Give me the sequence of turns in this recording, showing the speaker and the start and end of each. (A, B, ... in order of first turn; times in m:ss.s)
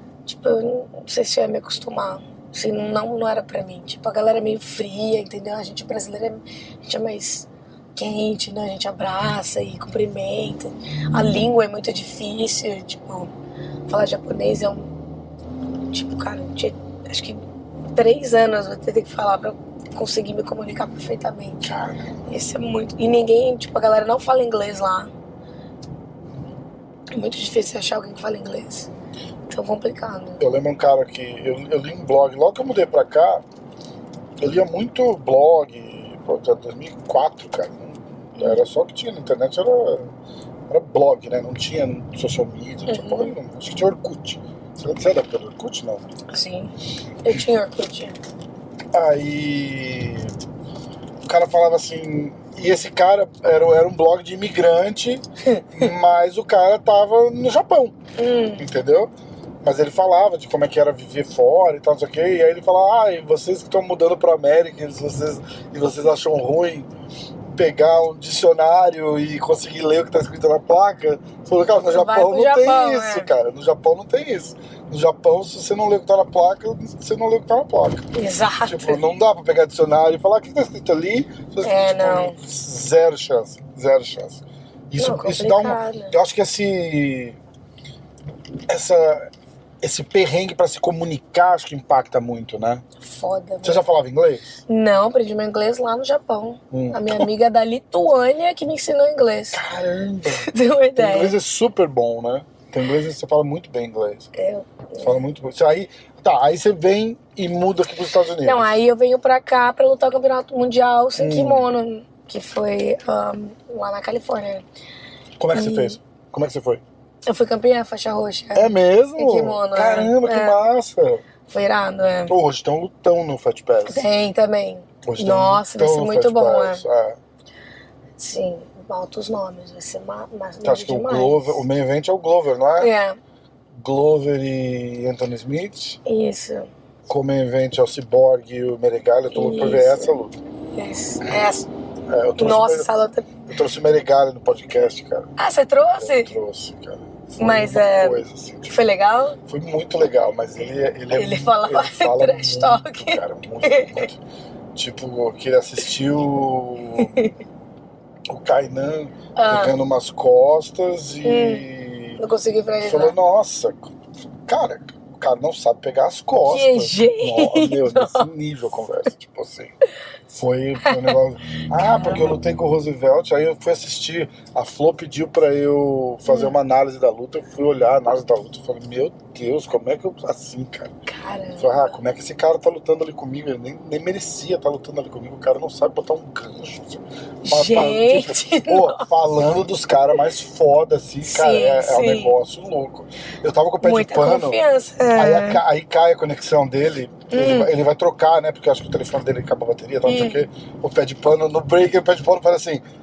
0:00.2-0:13.3 A
0:13.9-0:14.9 A
0:15.9-0:17.4 A
0:17.9-0:21.6 A
0:21.6-0:22.2 B
0:22.2-0:25.1 A
0:27.2-0:28.9 A
0:29.5-0:30.4 A
0:30.4-0:33.4 B
0:34.4-0:40.1 B
0:38.4-0:38.6 A
0:40.7-0:46.1 B
0:42.9-0:43.4 A
0:46.3-0:46.7 A
0:47.2-0:48.2 A
0:48.9-0:50.3 B
0:51.2-0:55.2 B
0:55.4-0:55.8 A
0:55.7-0:58.0 B
0:58.2-0:58.6 A
0:58.6-0:59.1 B
0:59.6-1:06.9 B
1:07.6-1:18.1 B
1:11.9-1:13.3 A
1:18.1-1:19.0 A
1:18.6-1:27.4 B
1:21.6-1:22.4 A
1:25.0-1:26.1 A
1:28.7-1:32.8 B
1:33.0-1:33.8 A
1:33.6-1:34.5 B
1:34.7-1:39.6 A
1:36.7-1:37.3 B
1:39.5-1:44.3 B
1:40.3-1:41.4 A
1:44.4-1:45.2 A
1:45.0-1:48.8 B
1:48.4-1:54.6 A
1:51.2-1:51.7 B
1:55.4-1:56.8 B
1:55.5-1:56.0 A
1:57.3-2:00.6 A
1:58.5-2:01.2 B
2:01.5-2:02.3 A
2:02.3-2:04.0 B
2:03.9-2:06.8 A
2:05.0-2:07.2 B
2:08.2-2:11.6 A
2:10.6-2:12.9 B
2:12.8-2:13.2 A
2:13.8-2:16.0 B
2:16.0-2:16.7 A
2:17.1-2:20.4 B
2:19.3-2:20.1 A
2:20.7-2:21.7 A
2:22.1-2:22.9 B
2:22.4-2:23.3 A
2:23.5-2:25.3 B
2:25.4-2:26.3 A
2:26.0-2:28.8 B
2:27.4-2:29.4 A
2:29.5-2:34.2 B
2:31.1-2:34.1 A
2:34.7-2:37.3 B
2:37.0-2:37.3 A
2:38.3-2:42.2 B
2:39.4-2:39.8 A
2:41.2-2:41.6 A
2:42.2-2:43.2 A
2:42.8-2:49.7 B
2:46.4-2:48.3 A
2:50.3-3:00.9 B
2:50.8-2:51.2 A
2:51.8-2:52.3 A
2:56.3-2:56.5 A
3:01.1-3:01.9 A
3:01.6-3:14.6 B
3:07.4-3:09.1 A
3:11.2-3:12.4 A
3:13.8-3:15.6 A
3:15.1-3:22.8 B
3:17.3-3:17.7 A
3:20.0-3:20.4 A